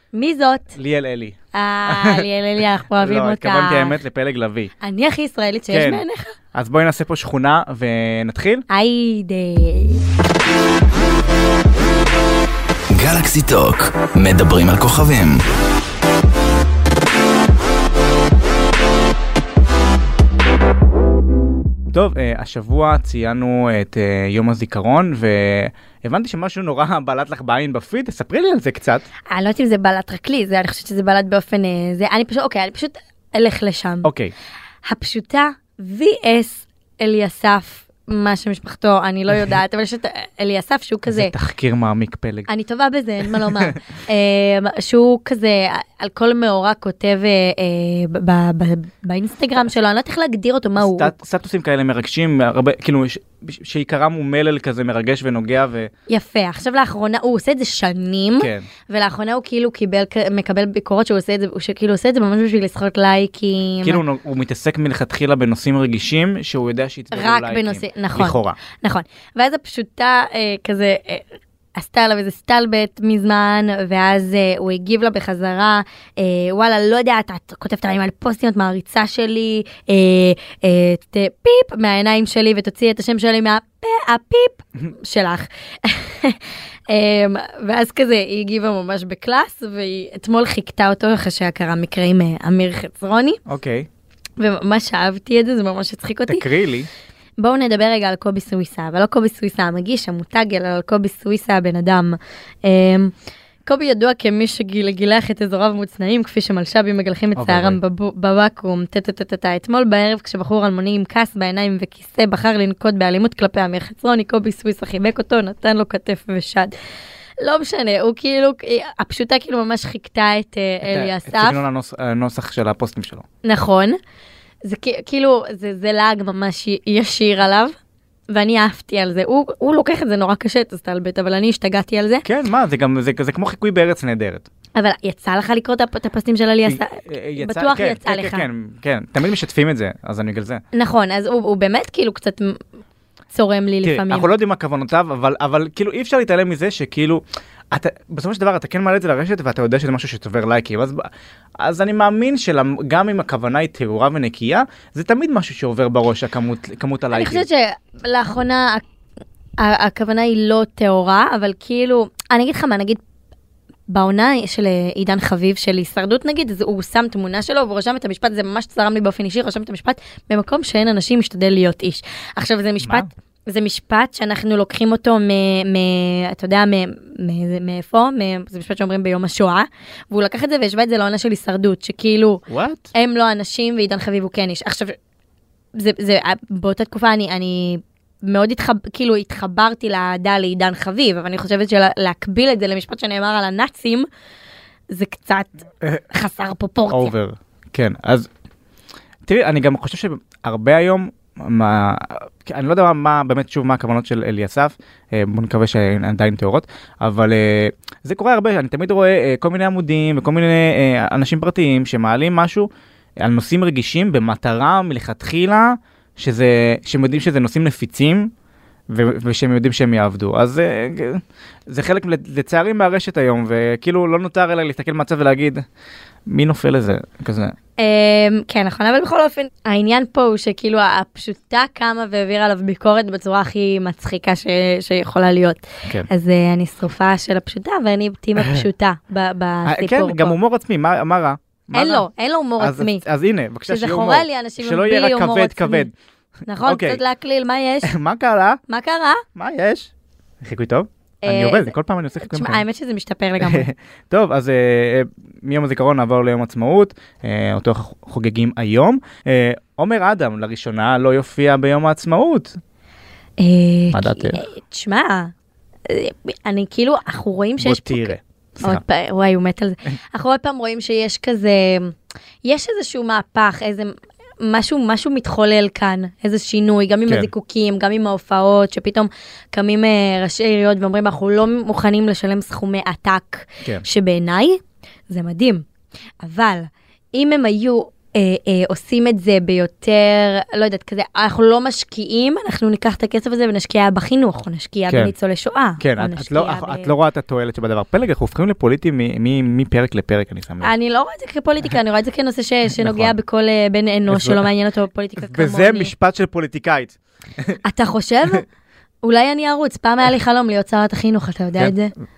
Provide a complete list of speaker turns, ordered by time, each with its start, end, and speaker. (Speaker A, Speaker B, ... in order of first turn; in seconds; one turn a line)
Speaker A: 0.1-0.7
Speaker B: 0.7-2.2
Speaker A: 1.5-4.0
Speaker B: 3.0-4.7
Speaker A: 4.8-6.4
Speaker B: 5.7-8.7
Speaker A: 8.7-10.0
Speaker C: 12.9-15.4
Speaker B: 21.9-29.1
Speaker A: 29.3-34.1
Speaker B: 34.0-34.3
Speaker A: 34.8-41.3
Speaker B: 41.1-42.5
Speaker A: 42.5-51.1
Speaker B: 43.2-43.7
Speaker B: 50.8-55.9
Speaker A: 56.1-64.0
Speaker B: 58.4-58.7
Speaker B: 63.8-68.6
Speaker A: 67.1-93.4
Speaker B: 93.5-93.9
Speaker A: 94.4-96.5
Speaker B: 96.3-96.9
Speaker A: 97.4-103.1
Speaker A: 103.7-116.7
Speaker B: 107.3-107.8
Speaker A: 117.4-121.6
Speaker B: 120.8-123.2
Speaker A: 123.4-124.0
Speaker A: 124.6-127.7
Speaker A: 128.3-132.2
Speaker B: 132.2-134.4
Speaker A: 134.8-138.4
Speaker B: 136.7-140.6
Speaker A: 140.7-142.6
Speaker A: 143.3-144.3
Speaker B: 143.8-157.4
Speaker A: 157.1-158.8
Speaker A: 159.6-163.0
Speaker A: 163.9-182.4
Speaker B: 172.8-173.1
Speaker B: 182.5-182.9
Speaker A: 182.9-185.0
Speaker A: 185.7-194.1
Speaker A: 194.9-197.1
Speaker B: 196.9-198.3
Speaker B: 199.2-212.7
Speaker B: 213.2-218.3
Speaker B: 218.9-225.6
Speaker B: 226.3-227.5
Speaker A: 227.8-240.4
Speaker B: 238.4-238.7
Speaker B: 239.6-242.1
Speaker A: 241.7-243.0
Speaker B: 242.6-245.9
Speaker A: 243.7-245.9
Speaker A: 246.5-247.9
Speaker B: 246.6-247.0
Speaker B: 247.8-248.6
Speaker A: 248.7-249.2
Speaker B: 249.3-249.9
Speaker B: 250.4-252.6
Speaker A: 251.2-253.7
Speaker B: 253.4-262.6
Speaker A: 263.4-265.3
Speaker B: 263.9-264.4
Speaker A: 265.9-285.6
Speaker B: 267.6-268.8
Speaker A: 286.2-296.9
Speaker B: 295.8-300.7
Speaker A: 300.6-305.9
Speaker B: 302.8-303.1
Speaker B: 304.1-304.4
Speaker B: 305.2-307.6
Speaker A: 307.6-308.4
Speaker A: 309.0-311.9